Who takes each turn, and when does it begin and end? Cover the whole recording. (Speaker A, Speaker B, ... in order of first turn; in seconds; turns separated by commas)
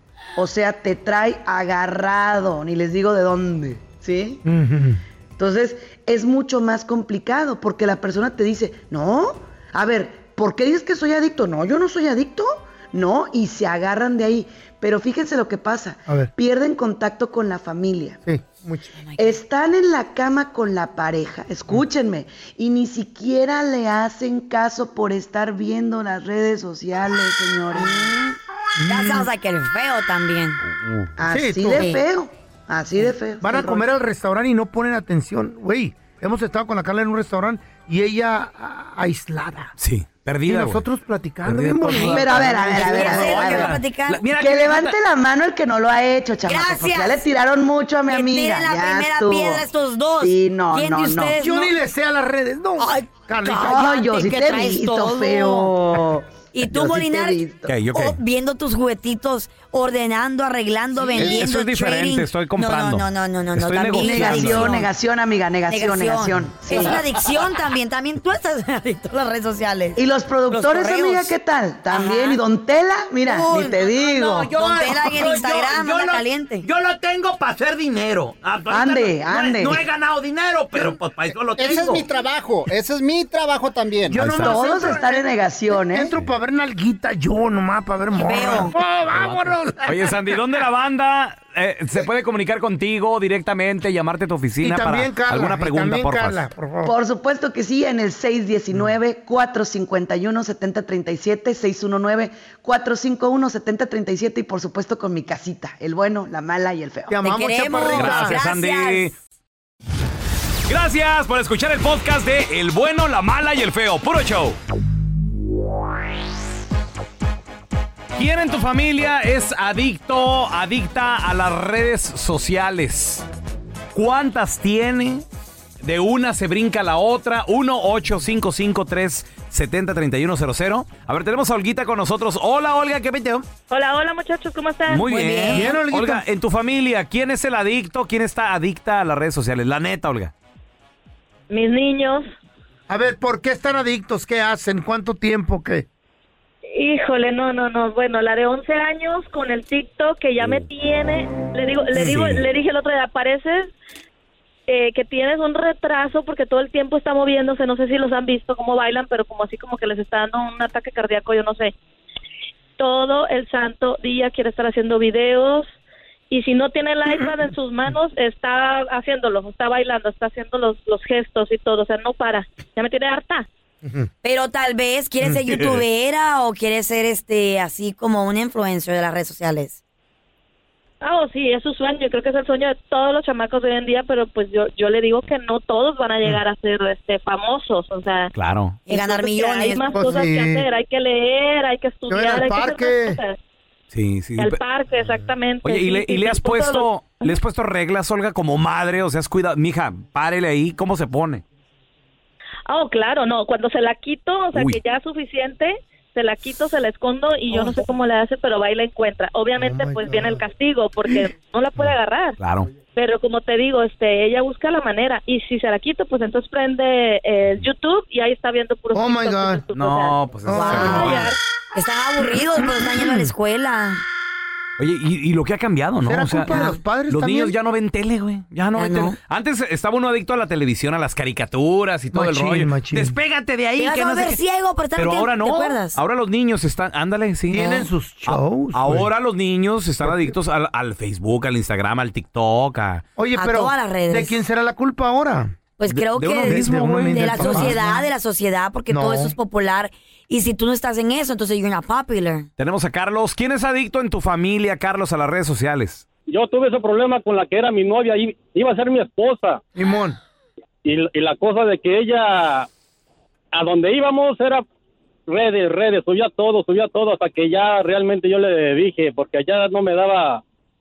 Speaker A: 0.4-4.4, Speaker B: 4.5-5.0, Speaker A: 5.4-18.2, Speaker B: 18.2-19.0, Speaker C: 19.0-19.4, Speaker A: 19.2-28.2, Speaker C: 27.7-30.6, Speaker B: 28.8-29.3, Speaker D: 30.8-31.1, Speaker A: 31.2-33.9, Speaker B: 31.3-32.0, Speaker C: 31.7-32.0, Speaker B: 33.4-39.7, Speaker D: 39.8-40.8, Speaker B: 40.5-43.6, Speaker D: 41.4-45.0, Speaker C: 42.0-44.2, Speaker A: 42.0-43.8, Speaker A: 44.3-49.7, Speaker C: 46.5-47.3, Speaker C: 48.1-51.8, Speaker A: 50.2-51.4, Speaker B: 51.4-54.0, Speaker C: 52.8-55.7, Speaker A: 53.6-57.8, Speaker C: 56.5-64.9, Speaker D: 57.7-58.2, Speaker D: 61.1-64.8, Speaker A: 64.0-67.1, Speaker C: 65.7-71.3, Speaker A: 70.0-74.5, Speaker C: 71.9-72.4, Speaker C: 73.2-73.9, Speaker E: 73.7-82.1, Speaker C: 74.5-76.7, Speaker A: 78.7-79.8, Speaker F: 81.5-84.2, Speaker B: 84.1-90.2, Speaker D: 84.1-84.6, Speaker A: 84.3-86.1, Speaker C: 88.2-88.8, Speaker D: 89.2-96.5, Speaker B: 94.6-96.9, Speaker A: 96.8-107.2, Speaker B: 107.1-108.4, Speaker C: 107.2-109.1, Speaker D: 107.9-109.2, Speaker D: 110.7-114.6, Speaker D: 118.2-123.2, Speaker D: 124.0-125.2, Speaker D: 125.8-133.4, Speaker G: 133.7-135.1, Speaker D: 134.9-140.3, Speaker C: 135.0-135.8, Speaker B: 135.5-136.2, Speaker G: 141.5-142.3, Speaker B: 142.9-145.9, Speaker G: 146.7-153.7, Speaker D: 151.9-152.4, Speaker G: 154.7-161.7, Speaker G: 162.8-165.7, Speaker G: 166.3-173.5, Speaker C: 174.2-179.8, Speaker D: 175.5-175.8, Speaker G: 181.0-188.3, Speaker D: 188.3-188.8, Speaker C: 188.9-190.0, Speaker G: 188.9-193.4, Speaker B: 189.9-190.7, Speaker B: 192.1-193.2, Speaker D: 193.9-194.6, Speaker G: 194.4-197.4, Speaker D: 195.6-201.4, Speaker G: 202.7-212.4, Speaker D: 204.5-204.8, Speaker B: 209.6-210.4, Speaker D: 211.8-212.7, Speaker G: 212.9-220.2, Speaker B: 218.9-219.6, Speaker D: 219.7-221.3, Speaker B: 220.4-221.3, Speaker C: 220.5-224.0, Speaker G: 220.8-221.3, Speaker D: 224.8-234.4, Speaker B: 226.0-227.6, Speaker C: 226.5-226.8, Speaker C: 228.8-229.2, Speaker B: 232.1-233.2, Speaker C: 233.8-236.0, Speaker D: 234.9-243.0, Speaker B: 237.5-239.1, Speaker B: 240.0-240.3, Speaker B: 243.2-245.6, Speaker C: 243.3-244.4, Speaker C: 245.8-252.5, Speaker D: 245.9-247.9, Speaker B: 246.4-248.0, Speaker B: 248.9-249.3, Speaker D: 252.6-256.1, Speaker H: 256.3-259.6, Speaker B: 259.8-260.2, Speaker H: 260.9-262.7, Speaker H: 263.5-264.6, Speaker H: 265.3-270.4